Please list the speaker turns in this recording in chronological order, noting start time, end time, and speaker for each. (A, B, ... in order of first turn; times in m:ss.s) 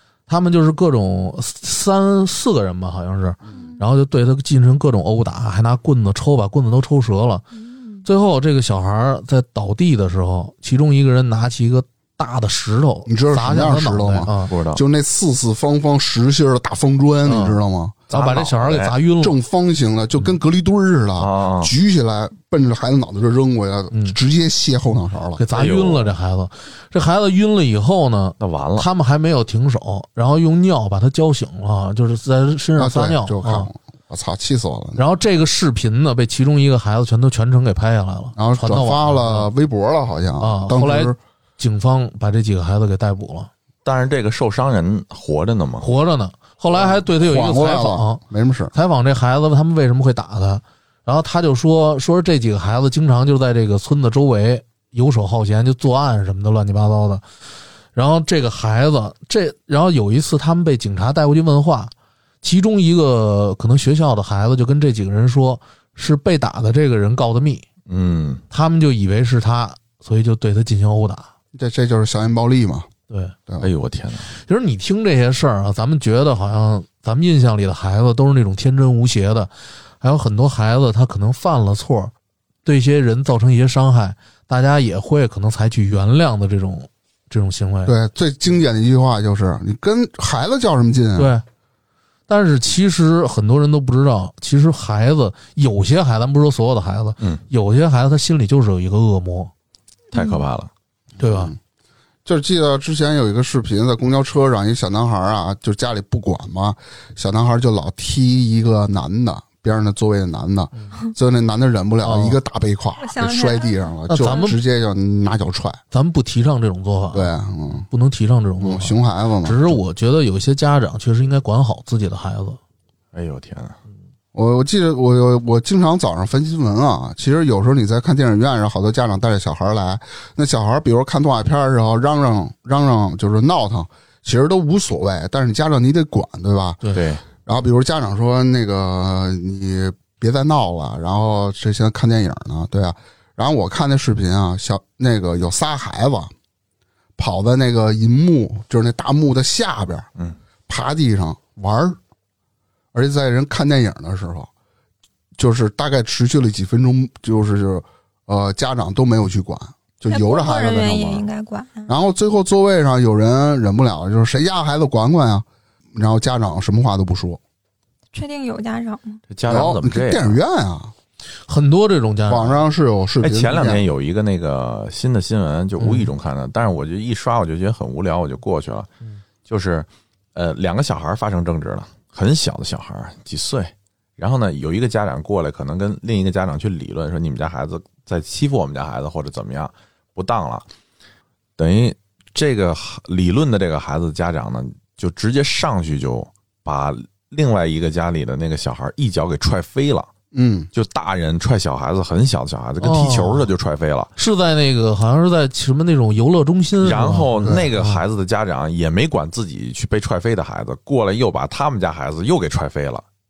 0:00.3-0:07.4 A
0:03.5-0:03.8 B
0:07.6-0:08.0 B
0:08.0-0:14.5 A
0:13.1-0:18.0 C
0:14.5-0:14.8 D
0:17.2-0:17.6 A
0:18.1-0:19.4 A
0:18.1-0:18.9 D
0:19.2-0:25.4 C
0:21.2-0:21.7 D
0:25.4-0:33.7 A
0:25.5-0:26.1 D
0:28.4-0:28.9 D
0:32.8-0:35.0 C
0:35.0-0:39.5 A
0:38.4-0:41.2 C
0:40.4-0:43.5 A
0:43.8-0:45.9 D
0:45.8-0:48.2 A
0:46.7-0:48.7 C
0:48.7-0:57.2 A
0:57.9-1:07.6 A
1:07.9-1:08.4 D
1:08.5-1:11.3 A
1:11.5-1:12.9 C
1:13.1-1:13.4 A
1:13.6-1:14.3 D
1:14.3-1:22.1 A
1:22.6-1:27.9 A
1:27.8-1:31.3 C
1:31.1-1:31.4 A
1:32.3-1:39.5 A
1:40.1-1:40.4 B
1:40.1-1:40.7 D
1:41.2-1:41.6 C
1:41.2-1:41.5 A
1:42.2-1:55.8 C
1:52.0-1:52.4 A
1:53.0-1:54.5 B
1:54.1-1:54.6 A
1:55.9-1:57.3 A
1:57.1-1:57.9 C
1:57.9-2:02.6 A
1:58.6-1:59.8 C
2:03.1-2:03.8 D
2:04.3-2:16.8 C
2:16.9-2:17.2 D
2:17.4-2:26.3 C
2:27.2-2:30.1 C
2:30.7-2:32.0 C
2:32.9-2:34.5 C
2:35.4-2:41.3 C
2:40.1-2:41.9 B
2:41.9-2:47.4 C
2:48.1-2:49.2 B
2:49.3-2:50.4 D
2:49.5-2:50.9 C
2:51.5-2:52.6 A
2:52.3-2:53.9 C
2:53.2-2:58.9 D
2:55.8-2:56.1 A
2:59.5-3:10.6 D
3:11.6-3:20.1 D
3:20.3-3:20.7 C
3:20.7-3:24.1 D
3:22.8-3:23.5 A
3:24.2-3:28.0 A
3:26.8-3:33.0 D
3:27.4-3:27.7 C